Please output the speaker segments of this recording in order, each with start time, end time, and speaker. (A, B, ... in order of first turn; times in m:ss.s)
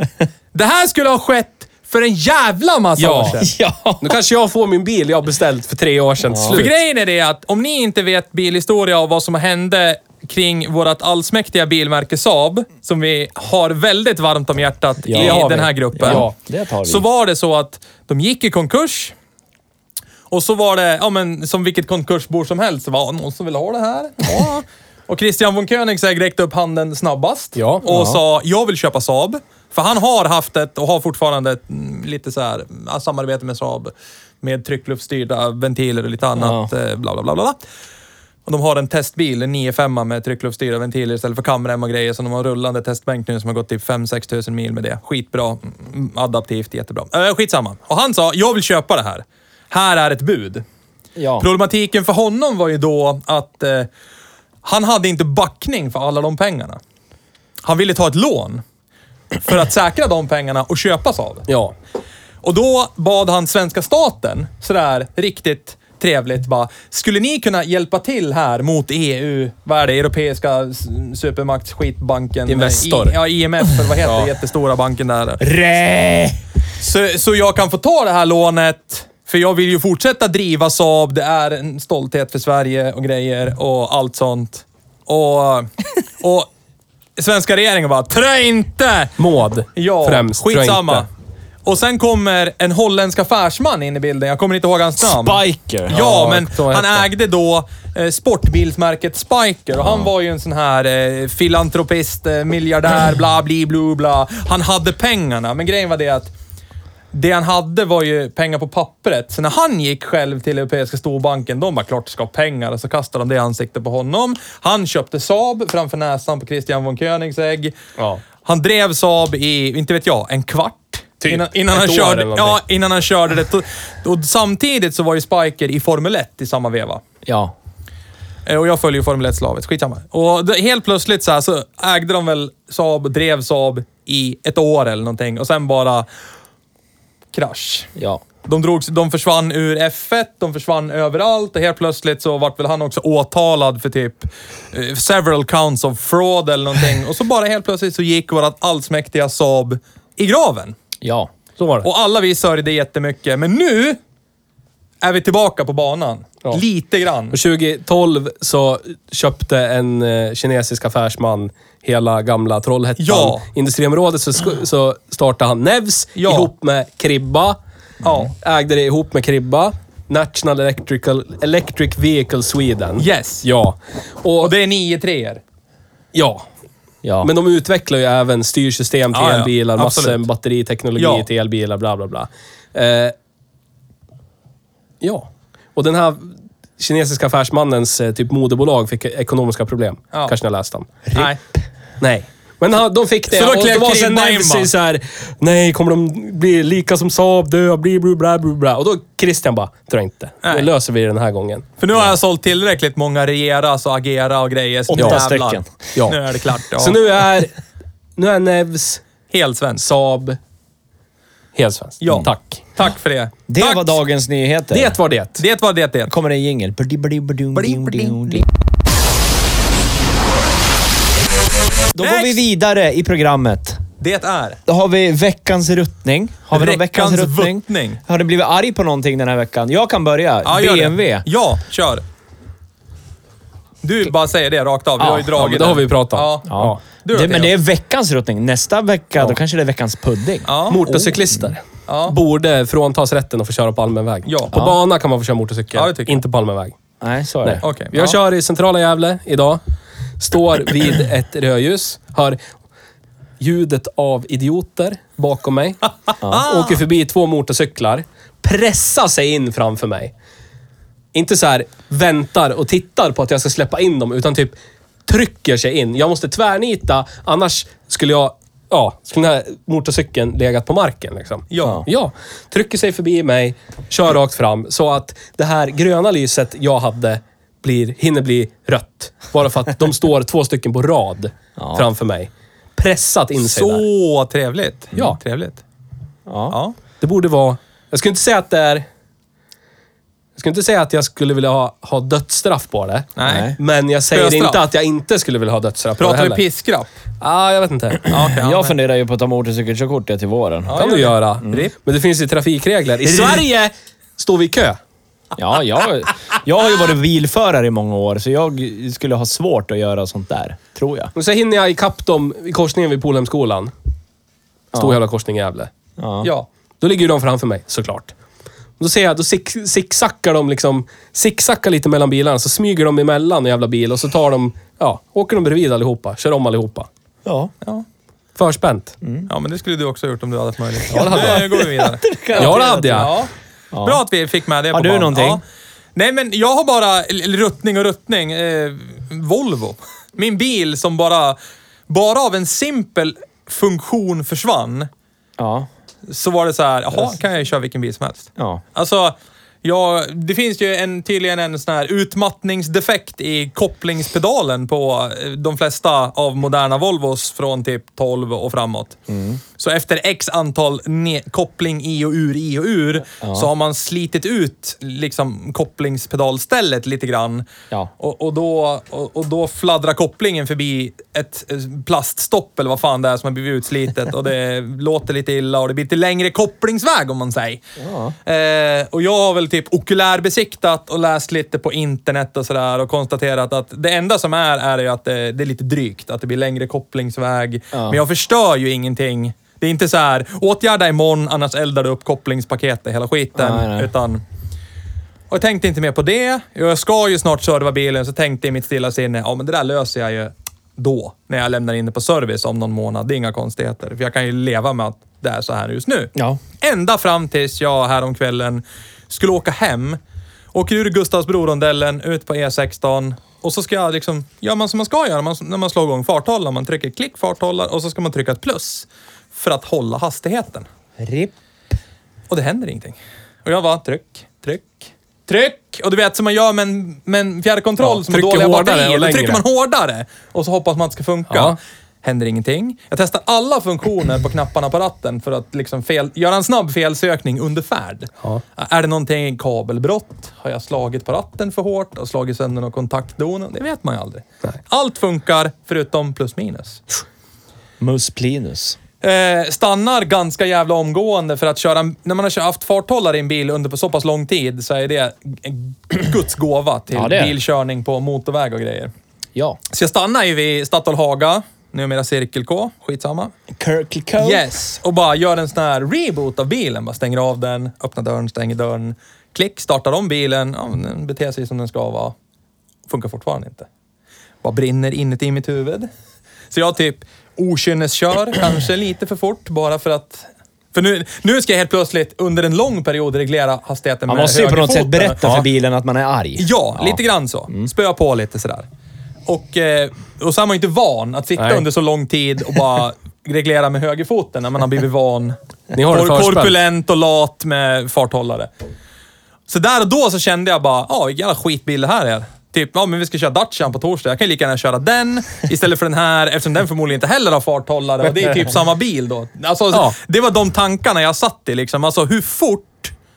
0:00.5-0:03.5 A
0:03.0-0:03.4 B
0:03.4-0:04.2 C
0:04.0-0:06.8 B
0:06.3-0:06.6 C
0:06.5-0:16.3 A
0:15.0-0:17.0 C
0:15.1-0:16.3 B
0:16.8-0:19.1 A
0:20.3-0:37.6 A
0:27.6-0:27.8 B
0:27.8-0:28.2 C
0:36.4-0:36.7 C
0:38.5-0:50.6 A
0:51.2-0:51.5 C
0:51.4-0:53.9 A
0:54.6-0:56.8 A
0:57.6-0:58.6 A
0:59.4-1:01.5 A
1:01.5-1:01.7 B
1:02.4-1:15.5 A
1:12.5-1:13.2 B
1:14.0-1:14.3 B
1:15.4-1:16.4 C
1:16.8-1:26.5 A
1:27.2-1:29.1 A
1:29.2-1:31.1 B
1:29.8-1:31.1 A
1:31.6-1:46.3 A
1:35.0-1:36.0 C
1:35.9-1:37.1 B
1:39.8-1:40.1 C
1:47.1-1:57.7 A
1:58.4-2:07.0 A
2:01.2-2:02.6 B
2:07.2-2:07.5 C
2:08.5-2:16.1 A
2:17.3-2:17.9 A
2:18.0-2:18.2 C
2:18.4-2:30.8 A
2:31.0-2:31.3 C
2:31.6-2:31.9 B
2:31.8-2:34.0 A
2:35.0-2:37.4 A
2:37.3-2:47.6 B
2:43.0-2:43.4 A
2:46.2-2:46.5 A
2:48.0-2:48.3 A
2:48.4-2:54.5 B
2:53.0-2:53.4 A
2:54.4-2:55.4 A
2:56.1-2:56.5 B
2:57.0-2:57.3 C
2:57.2-3:03.1 B
2:59.1-3:00.2 A
3:01.0-3:01.3 A
3:05.0-3:11.0 B
3:11.1-3:11.4 A
3:12.0-3:21.7 B
3:13.3-3:14.7 A
3:20.4-3:20.7 A
3:21.8-3:27.0 A
3:24.9-3:25.7 C
3:25.0-3:25.2 B
3:26.8-3:27.6 B
3:28.2-3:29.0 B
3:29.3-3:29.9 A
3:29.8-3:30.4 B
3:31.6-3:32.6 B
3:32.0-3:34.0 A
3:33.5-3:35.0 C
3:34.7-3:35.4 B
3:35.4-3:36.1 A
3:36.1-3:38.4 C
3:37.5-3:38.4 A
3:41.9-3:43.8 C
3:42.0-3:42.4 A
3:44.0-3:44.6 A
3:44.7-3:51.2 C
3:46.5-3:48.0 A
3:50.4-3:52.0 A
3:53.8-3:57.5 A
3:55.0-3:55.3 C
3:55.4-3:56.8 B
3:56.5-4:01.5 C
4:00.5-4:01.1 A
4:00.7-4:06.8 B
4:01.9-4:02.2 A
4:04.3-4:04.7 A
4:05.7-4:06.2 A
4:07.0-4:07.6 C
4:07.4-4:09.6 B
4:07.6-4:08.2 A
4:10.2-4:12.5 B
4:13.4-4:20.1 B
4:16.3-4:16.8 A
4:21.1-4:43.9 B
4:31.5-4:31.8 A
4:41.6-4:41.9 C
4:43.4-4:45.6 A
4:46.3-4:46.6 C
4:46.5-4:46.8 A
4:47.0-4:48.9 B
4:50.4-4:56.4 B
4:53.2-4:53.6 A
4:53.2-4:53.6 C
4:54.1-4:54.6 A
4:56.0-4:56.9 A
4:57.2-4:58.0 B
4:58.1-4:58.8 A
4:58.3-5:00.7 C
5:00.7-5:01.8 A
5:00.8-5:04.8 B
5:03.1-5:03.4 A
5:05.4-5:11.1 C
5:11.2-5:13.7 B
5:14.7-5:15.0 C
5:14.8-5:15.7 B
5:16.0-5:16.3 C
5:16.8-5:18.1 B
5:18.8-5:26.9 B
5:27.2-5:27.5 C
5:28.4-5:29.0 B
5:29.0-5:29.3 C
5:29.3-5:33.3 A
5:30.9-5:31.6 B
5:31.0-5:33.2 C
5:32.4-5:33.1 B
5:33.7-5:34.0 C
5:33.8-5:35.4 A
5:34.7-5:35.4 C
5:36.0-5:41.4 A
5:41.9-5:44.9 A
5:45.4-5:45.7 C
5:46.1-5:59.0 A
5:48.4-5:48.6 C
5:59.1-5:59.4 C
5:59.6-6:17.6 A
6:03.2-6:03.5 C
6:17.8-6:18.2 C
6:18.3-6:34.2 A
6:27.7-6:28.0 C
6:33.4-6:33.9 C
6:35.3-6:50.0 A
6:46.2-6:46.4 C
6:50.5-7:00.7 A
7:01.0-7:01.3 C
7:02.3-7:26.8 A
7:07.8-7:09.4 B
7:11.3-7:11.6 B
7:27.8-7:28.8 C
7:29.0-7:38.9 A
7:36.9-7:37.4 C
7:39.7-7:43.3 A
7:43.5-7:44.5 C
7:44.2-7:52.1 A
7:52.9-7:53.7 A
7:54.4-7:55.9 A
7:56.5-8:05.5 A
8:04.1-8:07.7 C
8:06.4-8:08.7 A
8:09.3-8:15.4 A
8:11.4-8:11.6 B
8:15.7-8:16.5 B
8:15.9-8:18.5 A
8:19.5-8:32.9 A
8:28.0-8:28.5 B